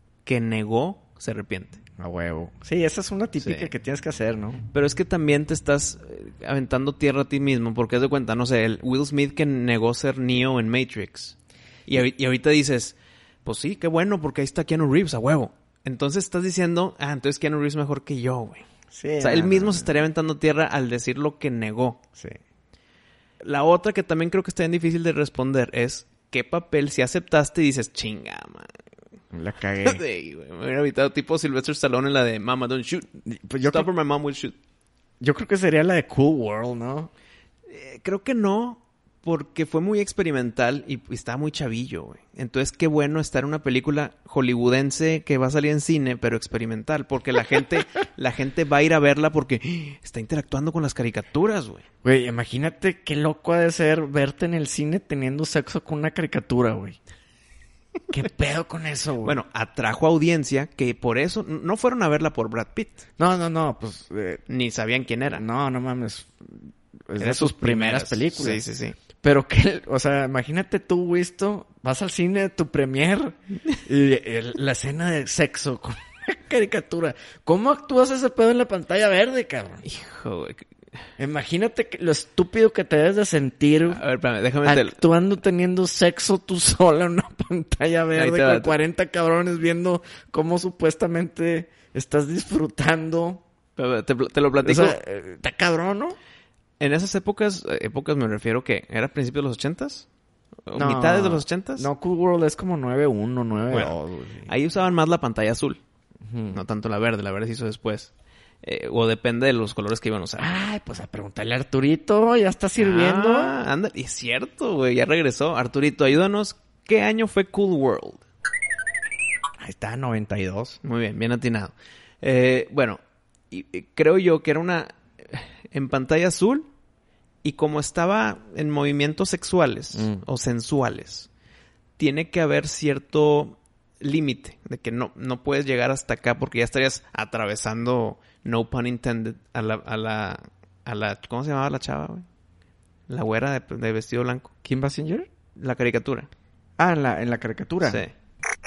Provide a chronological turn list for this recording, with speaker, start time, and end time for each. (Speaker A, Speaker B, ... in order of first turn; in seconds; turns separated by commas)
Speaker A: 0.2-1.8, Speaker B: 2.0-4.7, Speaker A: 3.4-3.7, Speaker A: 4.7-11.4, Speaker A: 11.9-18.7, Speaker B: 18.9-19.9, Speaker A: 19.2-22.0, Speaker A: 23.4-28.7, Speaker B: 29.3-30.0, Speaker A: 29.8-33.1, Speaker B: 33.3-33.9, Speaker A: 33.6-34.6, Speaker B: 35.2-37.1, Speaker A: 37.7-51.9, Speaker B: 52.0-57.0, Speaker B: 58.1-59.4, Speaker A: 59.2-63.0, Speaker B: 63.2-64.4, Speaker A: 64.5-65.4, Speaker B: 65.3-68.6, Speaker A: 67.2-69.0, Speaker B: 69.2-79.8, Speaker A: 79.8-80.7, Speaker B: 81.2-84.0, Speaker A: 83.9-85.0, Speaker B: 84.6-93.4, Speaker A: 88.2-88.7, Speaker A: 93.8-95.0, Speaker B: 94.6-96.2, Speaker A: 96.8-100.1, Speaker A: 100.7-101.9, Speaker B: 100.8-104.5, Speaker A: 104.5-105.8, Speaker B: 106.2-106.6, Speaker A: 106.5-108.1, Speaker A: 108.6-110.5, Speaker B: 110.4-113.6, Speaker A: 112.8-118.2, Speaker B: 119.6-120.8, Speaker A: 120.8-123.0, Speaker A: 123.5-126.7, Speaker A: 127.4-131.3, Speaker B: 129.9-130.2, Speaker A: 132.0-142.3, Speaker A: 143.1-144.5, Speaker B: 144.6-145.3, Speaker A: 145.6-146.3, Speaker B: 146.8-148.0, Speaker A: 147.8-148.1